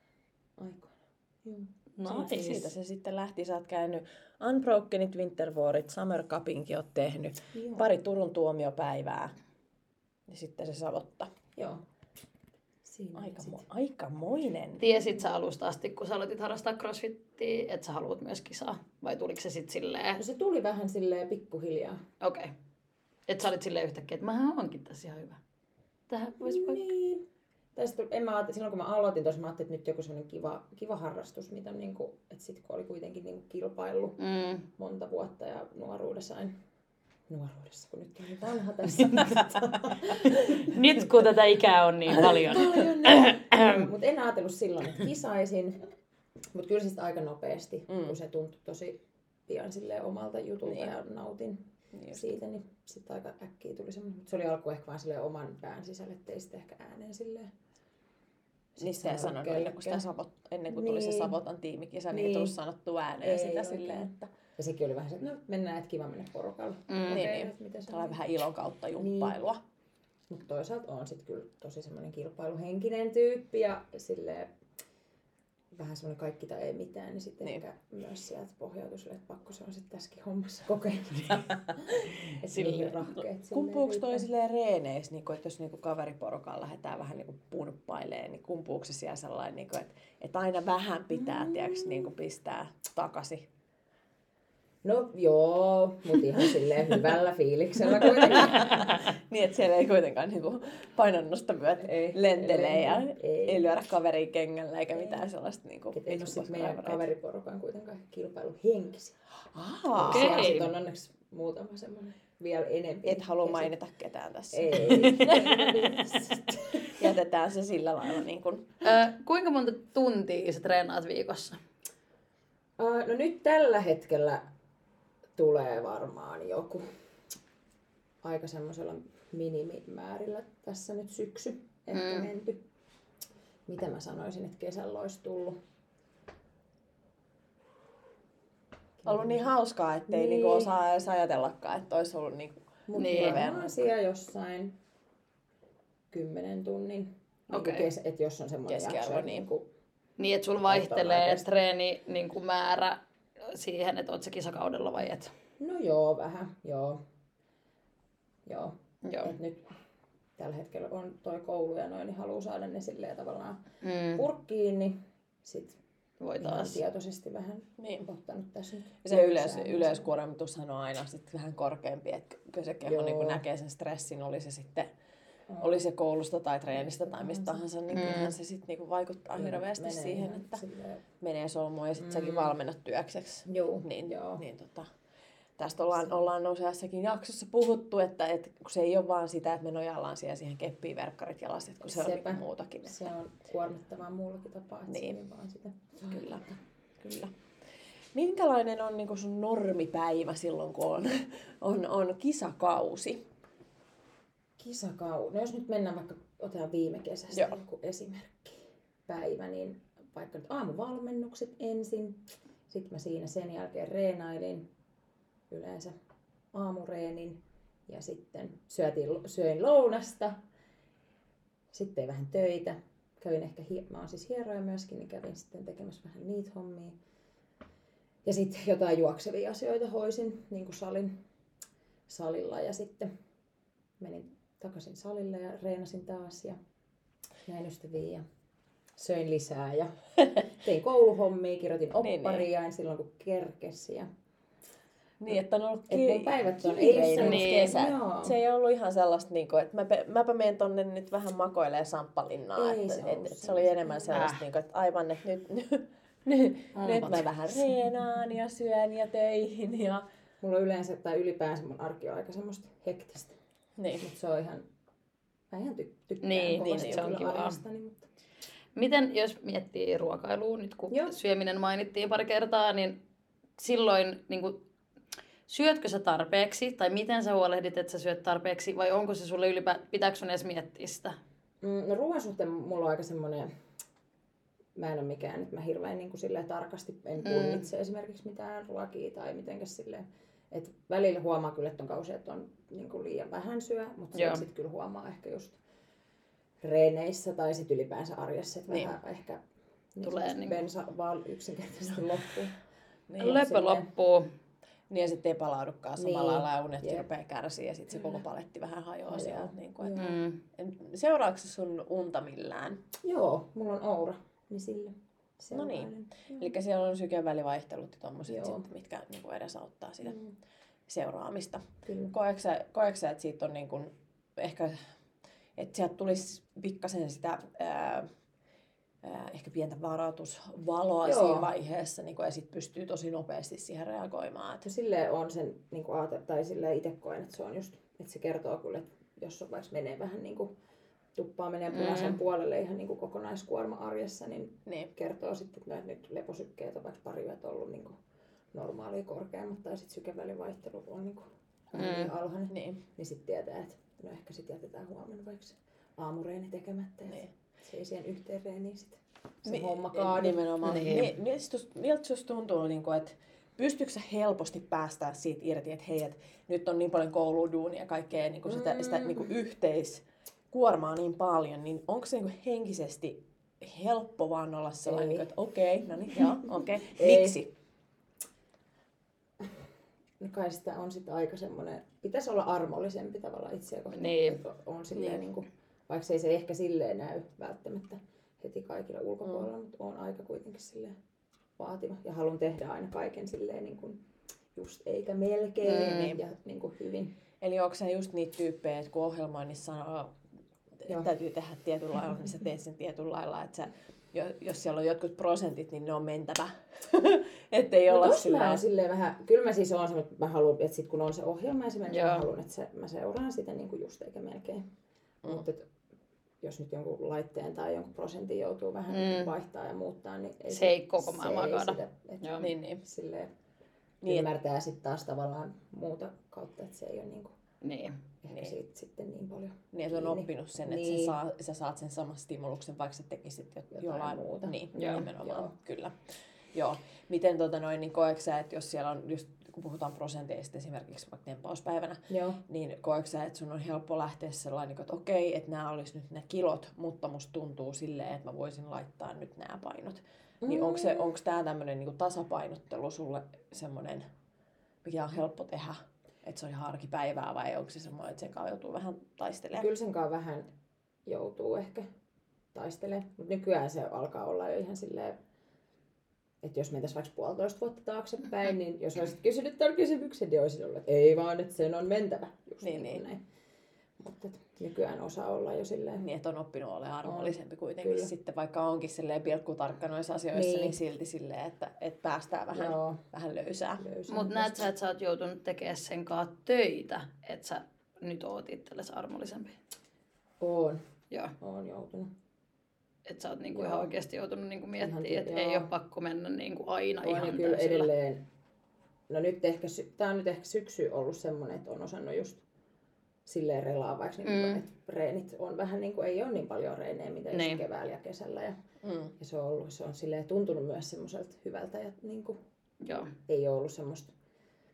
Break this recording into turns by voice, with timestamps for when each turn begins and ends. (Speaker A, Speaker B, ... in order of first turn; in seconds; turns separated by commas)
Speaker A: 0.6-1.7, Speaker B: 2.0-2.7, Speaker C: 2.0-9.3, Speaker A: 7.5-7.9, Speaker C: 10.3-11.3, Speaker A: 11.6-11.8, Speaker A: 12.8-13.6, Speaker C: 13.1-14.8, Speaker B: 14.8-20.2, Speaker A: 20.1-22.0, Speaker B: 22.2-22.5, Speaker B: 23.3-25.4, Speaker B: 26.1-26.8, Speaker A: 26.4-34.2, Speaker B: 34.2-34.6, Speaker A: 34.7-36.6, Speaker A: 37.3-40.8, Speaker B: 40.2-43.9, Speaker A: 42.1-45.8, Speaker A: 46.5-57.5, Speaker C: 47.9-48.1, Speaker C: 51.9-52.2, Speaker A: 58.8-60.0, Speaker C: 58.8-64.3, Speaker A: 60.7-61.4, Speaker A: 62.1-62.5, Speaker A: 63.2-68.2, Speaker B: 66.9-67.4, Speaker C: 67.1-69.6, Speaker A: 69.0-69.3, Speaker A: 70.3-74.5, Speaker A: 75.7-84.3, Speaker C: 82.5-93.5, Speaker A: 91.1-92.1, Speaker A: 94.8-99.0, Speaker C: 98.0-107.0, Speaker A: 101.8-103.7, Speaker A: 105.0-105.2, Speaker A: 105.9-109.2, Speaker C: 109.5-110.7, Speaker A: 109.9-113.7, Speaker B: 110.1-110.6, Speaker C: 113.0-115.4, Speaker A: 114.5-117.1, Speaker B: 115.1-115.6, Speaker C: 116.8-118.8, Speaker B: 118.8-121.6, Speaker A: 122.8-124.5, Speaker A: 125.3-126.9, Speaker A: 128.2-132.6, Speaker B: 131.9-132.3, Speaker A: 133.7-135.6, Speaker A: 139.0-139.5, Speaker C: 139.0-143.8, Speaker A: 140.1-140.7, Speaker A: 142.9-144.8, Speaker B: 142.9-143.5, Speaker A: 146.1-149.7, Speaker B: 147.5-147.9, Speaker C: 148.7-149.5, Speaker B: 150.2-155.3, Speaker A: 150.6-151.5, Speaker A: 155.6-157.0, Speaker A: 158.4-159.7, Speaker B: 159.0-159.3, Speaker A: 160.4-165.8, Speaker B: 163.8-164.2, Speaker B: 166.2-166.8, Speaker A: 166.4-170.1, Speaker C: 167.8-168.1, Speaker C: 169.0-174.9, Speaker A: 172.8-173.4, Speaker A: 175.5-175.8, Speaker C: 175.6-180.6, Speaker A: 176.8-177.7, Speaker B: 177.9-178.3, Speaker A: 179.3-181.0, Speaker C: 181.2-184.9, Speaker A: 182.0-182.5, Speaker A: 183.5-184.4, Speaker C: 185.6-193.0, Speaker A: 191.8-196.6, Speaker C: 194.9-195.2, Speaker C: 196.0-196.5, Speaker C: 197.0-197.3, Speaker C: 198.1-203.2, Speaker A: 204.6-214.7, Speaker C: 207.3-207.6, Speaker A: 215.5-215.9, Speaker A: 216.5-220.4, Speaker A: 221.7-227.0, Speaker A: 228.2-231.2, Speaker A: 232.1-233.1, Speaker A: 234.0-236.6, Speaker A: 237.4-238.2, Speaker A: 239.0-239.9, Speaker A: 240.5-244.1, Speaker C: 242.0-242.5, Speaker C: 245.2-260.0, Speaker A: 245.9-248.4, Speaker B: 247.2-247.7, Speaker A: 252.5-254.3, Speaker B: 254.1-254.4, Speaker B: 256.8-257.3, Speaker A: 260.4-263.4, Speaker C: 263.8-264.1, Speaker A: 264.0-264.6, Speaker A: 265.5-268.1, Speaker B: 266.2-267.6, Speaker C: 266.5-267.1, Speaker B: 268.7-273.0, Speaker A: 270.9-271.1, Speaker B: 273.6-274.6, Speaker B: 275.5-281.2, Speaker A: 281.6-283.5, Speaker A: 284.7-295.6, Speaker B: 287.2-287.6, Speaker B: 294.1-294.4, Speaker A: 296.6-299.4, Speaker C: 298.7-298.9, Speaker A: 299.9-302.6, Speaker B: 300.0-300.6, Speaker A: 303.2-303.9, Speaker B: 303.2-304.3, Speaker C: 304.9-310.0, Speaker A: 305.9-307.1, Speaker A: 309.1-310.2, Speaker B: 309.9-310.4, Speaker C: 310.5-312.9, Speaker A: 313.0-316.5, Speaker C: 315.5-320.2, Speaker A: 318.3-318.6, Speaker C: 320.9-324.8, Speaker A: 321.9-322.1, Speaker C: 325.6-328.1, Speaker C: 329.0-334.7, Speaker A: 331.0-331.5, Speaker A: 334.6-340.5, Speaker A: 341.1-348.0, Speaker B: 341.7-342.1, Speaker C: 344.6-344.9, Speaker A: 348.5-360.4, Speaker B: 351.8-352.1, Speaker C: 352.5-352.8, Speaker C: 359.5-377.5, Speaker B: 360.6-361.1, Speaker A: 368.4-369.3, Speaker A: 374.9-375.3, Speaker A: 376.9-377.4, Speaker A: 380.2-391.0, Speaker B: 383.9-384.4, Speaker C: 384.9-385.2, Speaker A: 391.6-397.1, Speaker B: 395.6-396.1, Speaker C: 395.7-396.2, Speaker C: 397.4-400.1, Speaker C: 400.8-408.6, Speaker A: 407.9-414.6, Speaker B: 411.9-412.3, Speaker A: 415.2-415.7, Speaker A: 416.4-423.3, Speaker B: 418.9-419.3, Speaker B: 420.5-422.5, Speaker C: 422.4-422.8, Speaker C: 424.0-424.3, Speaker A: 424.0-427.3, Speaker B: 427.6-428.0, Speaker A: 428.2-431.1, Speaker C: 429.7-435.9, Speaker A: 433.8-435.5, Speaker B: 434.8-435.1, Speaker C: 436.5-454.1, Speaker A: 442.1-442.4, Speaker A: 450.4-451.1, Speaker C: 454.8-459.7, Speaker A: 459.5-460.5, Speaker A: 461.1-461.9, Speaker A: 462.5-465.2, Speaker A: 466.4-473.2, Speaker C: 472.6-473.0, Speaker A: 474.0-476.0, Speaker C: 476.0-483.8, Speaker A: 477.0-478.1, Speaker A: 480.3-480.8, Speaker A: 482.5-483.0, Speaker A: 483.8-484.7, Speaker B: 484.1-489.5, Speaker A: 490.4-490.8, Speaker A: 491.4-492.1, Speaker B: 493.1-497.9, Speaker A: 493.5-493.9, Speaker A: 494.8-495.7, Speaker A: 497.0-498.2, Speaker A: 499.1-502.4, Speaker A: 503.2-508.6, Speaker B: 504.2-504.6, Speaker B: 507.3-507.6, Speaker C: 508.8-509.1, Speaker A: 509.2-512.4, Speaker B: 512.8-513.1, Speaker A: 513.2-514.1